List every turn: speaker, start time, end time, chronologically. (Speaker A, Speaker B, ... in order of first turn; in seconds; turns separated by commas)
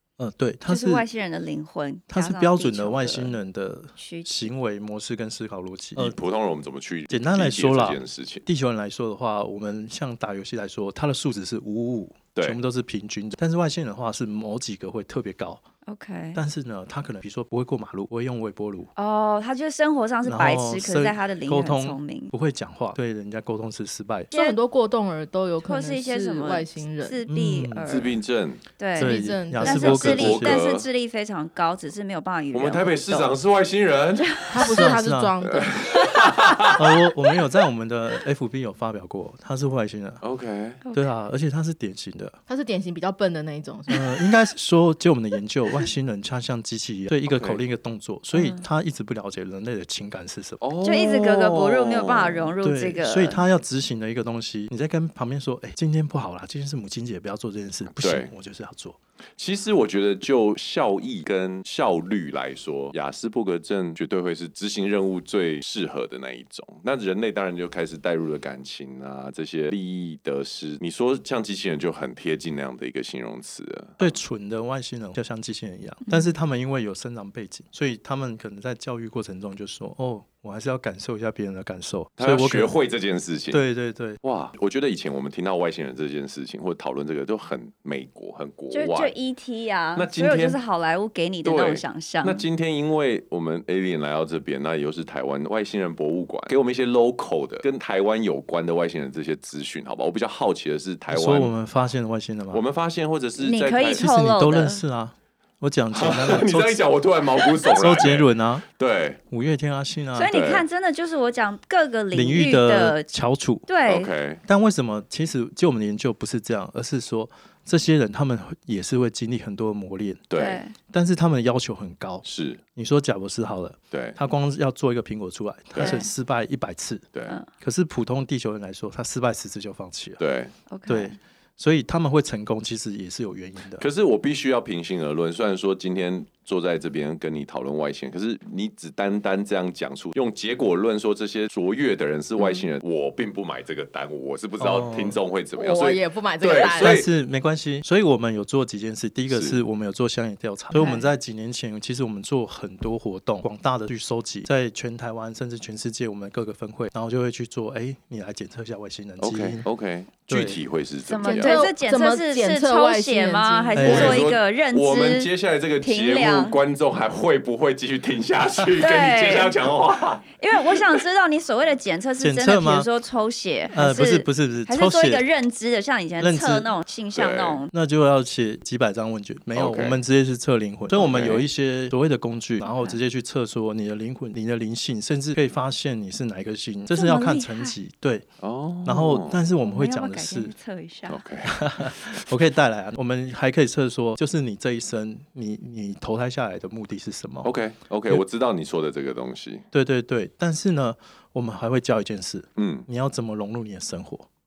Speaker A: 0.2-1.0, Speaker B: 0.7-3.4, Speaker A: 2.1-6.2, Speaker B: 4.0-4.4, Speaker C: 6.0-8.4, Speaker A: 7.1-15.6, Speaker B: 15.8-16.4, Speaker A: 16.3-18.9, Speaker B: 18.9-22.3, Speaker A: 20.2-24.3, Speaker D: 24.3-27.2, Speaker B: 24.3-24.6, Speaker B: 25.6-28.1, Speaker A: 27.3-28.1, Speaker C: 27.8-28.6, Speaker B: 28.8-33.4, Speaker A: 28.9-30.6, Speaker D: 29.0-30.1, Speaker C: 29.7-30.9, Speaker C: 32.5-34.5, Speaker B: 34.2-34.8, Speaker D: 34.5-35.9, Speaker A: 34.7-35.3, Speaker C: 35.4-36.8, Speaker A: 36.7-40.2, Speaker C: 40.2-40.8, Speaker A: 40.9-42.4, Speaker D: 42.5-44.1, Speaker A: 43.9-50.6, Speaker C: 47.3-47.6, Speaker B: 48.3-48.6, Speaker C: 50.6-52.5, Speaker B: 50.8-53.4, Speaker A: 52.6-59.0, Speaker C: 57.9-58.3, Speaker C: 59.4-74.1, Speaker A: 74.0-82.7, Speaker C: 82.2-83.6, Speaker A: 83.5-84.2, Speaker C: 84.2-89.1, Speaker B: 88.7-92.4, Speaker C: 90.0-90.6, Speaker C: 91.4-101.5, Speaker A: 101.1-102.6, Speaker C: 102.5-104.0, Speaker B: 103.4-104.8, Speaker A: 103.9-106.9, Speaker C: 105.9-109.2, Speaker A: 107.6-108.7, Speaker A: 109.3-110.3, Speaker B: 110.1-113.1, Speaker C: 110.3-110.6, Speaker A: 112.1-113.7, Speaker B: 113.7-114.1, Speaker C: 113.8-114.4, Speaker A: 114.4-120.3, Speaker C: 120.3-120.6, Speaker B: 120.3-120.7, Speaker A: 120.9-130.2, Speaker C: 122.2-122.6, Speaker C: 123.9-124.2, Speaker C: 125.7-126.0, Speaker B: 125.8-126.1, Speaker C: 130.2-130.5, Speaker B: 130.7-131.2, Speaker A: 130.9-133.8, Speaker C: 133.8-147.1, Speaker B: 142.4-142.7, Speaker A: 144.6-145.2, Speaker D: 145.5-147.0, Speaker A: 146.7-159.7, Speaker C: 149.3-149.6, Speaker B: 150.7-151.1, Speaker C: 159.2-161.6, Speaker A: 160.3-160.6, Speaker B: 161.1-165.3, Speaker D: 161.2-164.0, Speaker A: 163.7-164.3, Speaker C: 163.8-171.0, Speaker B: 165.8-166.6, Speaker B: 168.8-169.6, Speaker B: 170.4-177.7, Speaker A: 172.2-172.9, Speaker A: 173.7-175.2, Speaker A: 176.2-176.7, Speaker C: 177.1-177.6, Speaker A: 177.7-188.2, Speaker C: 179.5-180.0, Speaker C: 180.9-181.4, Speaker B: 182.6-183.0, Speaker B: 186.9-187.8, Speaker C: 188.4-189.4, Speaker A: 188.8-190.5, Speaker B: 189.6-191.2, Speaker C: 191.1-192.3, Speaker A: 191.4-197.5, Speaker C: 197.4-199.7, Speaker A: 199.7-204.3, Speaker C: 202.6-202.9